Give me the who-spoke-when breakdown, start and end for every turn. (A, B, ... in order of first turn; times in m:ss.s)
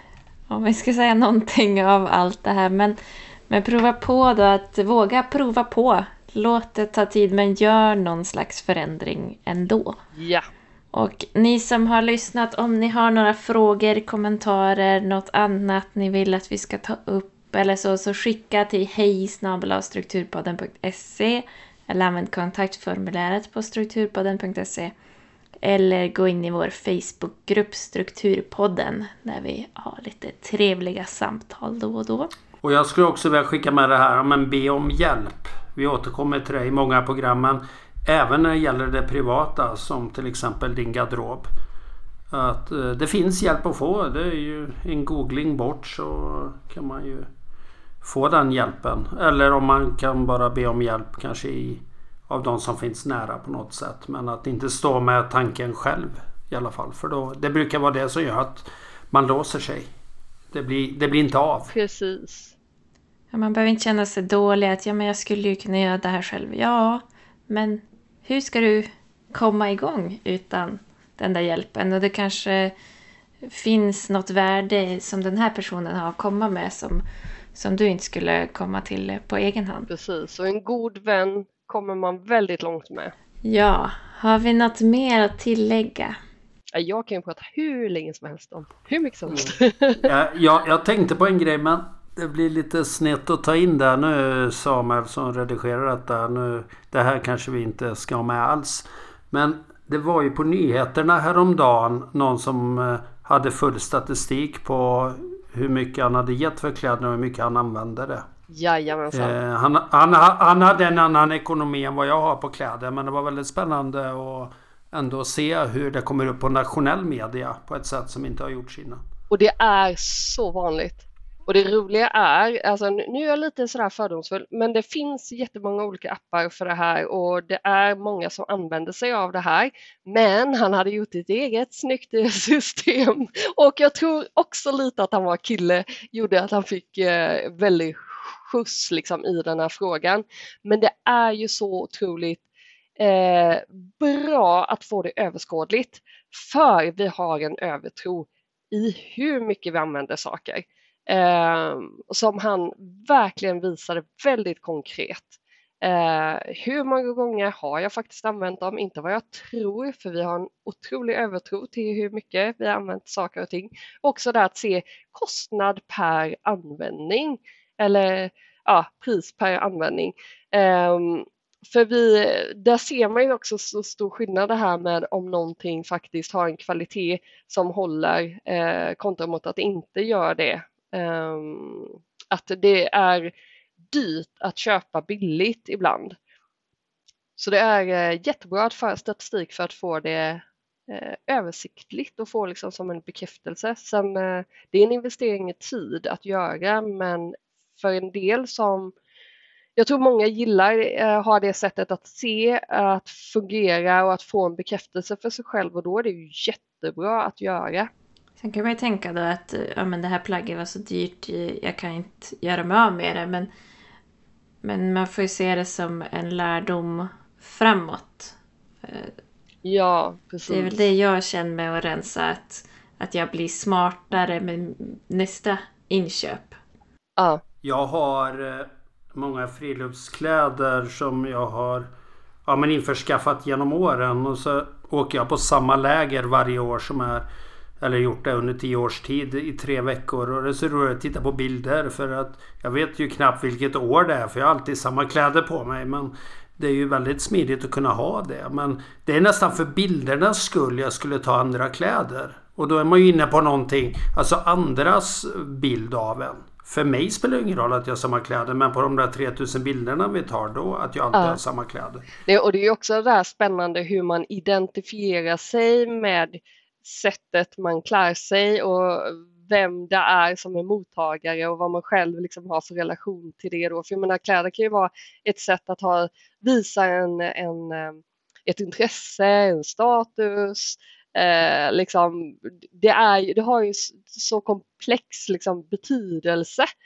0:00.5-0:10.0 A
0:10.2-0:10.5 B
0:10.9-0:24.9 A
0:25.6-0:32.3 A
0:32.6-0:41.5 C
0:42.3-0:47.3 C
0:48.0-0:59.9 C
1:00.5-1:01.7 C
1:01.7-1:02.6 B
1:03.3-1:12.7 A
1:13.4-1:17.0 A
1:17.6-1:19.9 A
1:19.9-1:23.1 B
1:23.4-1:26.2 A
1:26.7-1:30.1 B
1:29.3-1:48.3 C
1:48.5-1:49.4 B
1:49.1-1:59.0 C
1:59.3-2:22.4 B
2:23.0-3:03.3 B
3:03.9-3:06.2 B
3:07.4-3:18.9 B
3:19.8-3:27.9 B
3:28.4-3:33.5 A
3:34.6-3:39.1 A
3:39.6-3:40.8 B
3:40.5-3:46.6 A
3:47.2-3:47.4 B
3:47.6-3:51.9 C
3:52.5-3:57.3 C
3:57.8-4:22.1 C
4:21.1-4:21.4 B
4:22.3-4:46.7 B